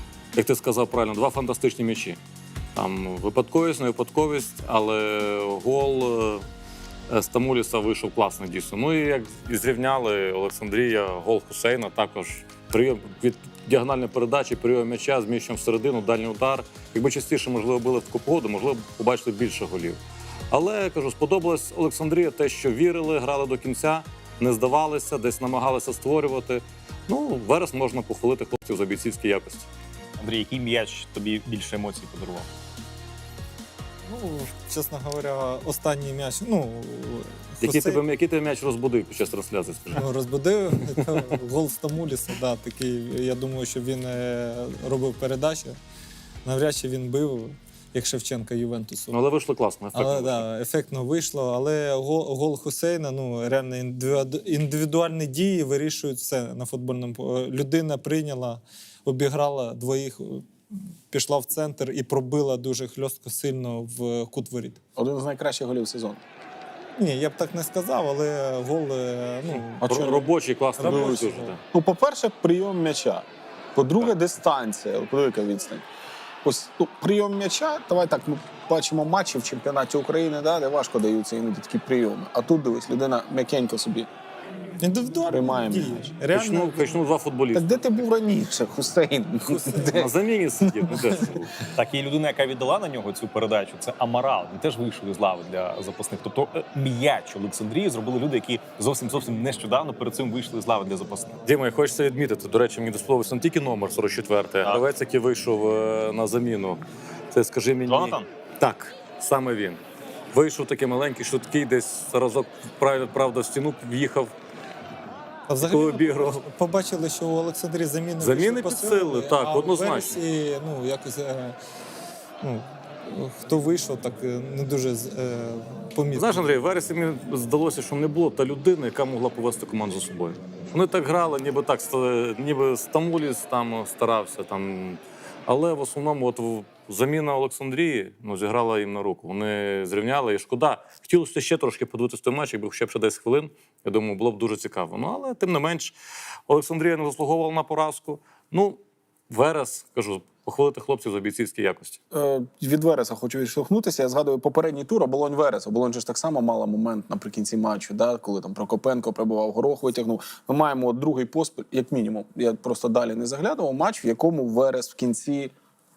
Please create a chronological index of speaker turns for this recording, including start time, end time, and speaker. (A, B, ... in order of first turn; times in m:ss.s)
0:00.4-0:02.2 A
0:02.8-0:06.4 A
0:07.1-0:20.0 A
0:20.5-0:29.7 A
0:30.2-0:32.5 B
0:34.1-0:38.0 C
0:37.6-0:40.0 A
0:39.9-0:45.8 C
0:46.4-0:49.2 C
0:49.1-0:50.5 A
0:49.9-1:00.5 C
1:01.1-1:04.8 C
1:05.0-1:06.2 D
1:07.0-1:09.8 C
1:09.5-1:11.6 A
1:09.8-1:15.8 D
1:10.8-1:11.6 C
1:16.4-1:24.1 D
1:24.8-1:27.0 C
1:25.3-1:26.2 D
1:26.3-1:28.1 A
1:27.5-1:30.1 D
1:29.5-1:30.0 C
1:29.9-1:31.5 A
1:30.6-1:31.0 D
1:31.7-1:41.4 B
1:41.4-1:46.8 A
1:47.3-1:49.8 A
1:47.9-1:48.3 B
1:50.3-1:54.3 A
1:55.5-2:01.6 C
1:55.6-1:56.4 A
1:58.2-2:00.2 A
2:02.4-2:06.5 C
2:06.2-2:26.0 A
2:26.5-2:28.8 A
2:29.3-2:32.0 A
2:32.1-2:45.5 D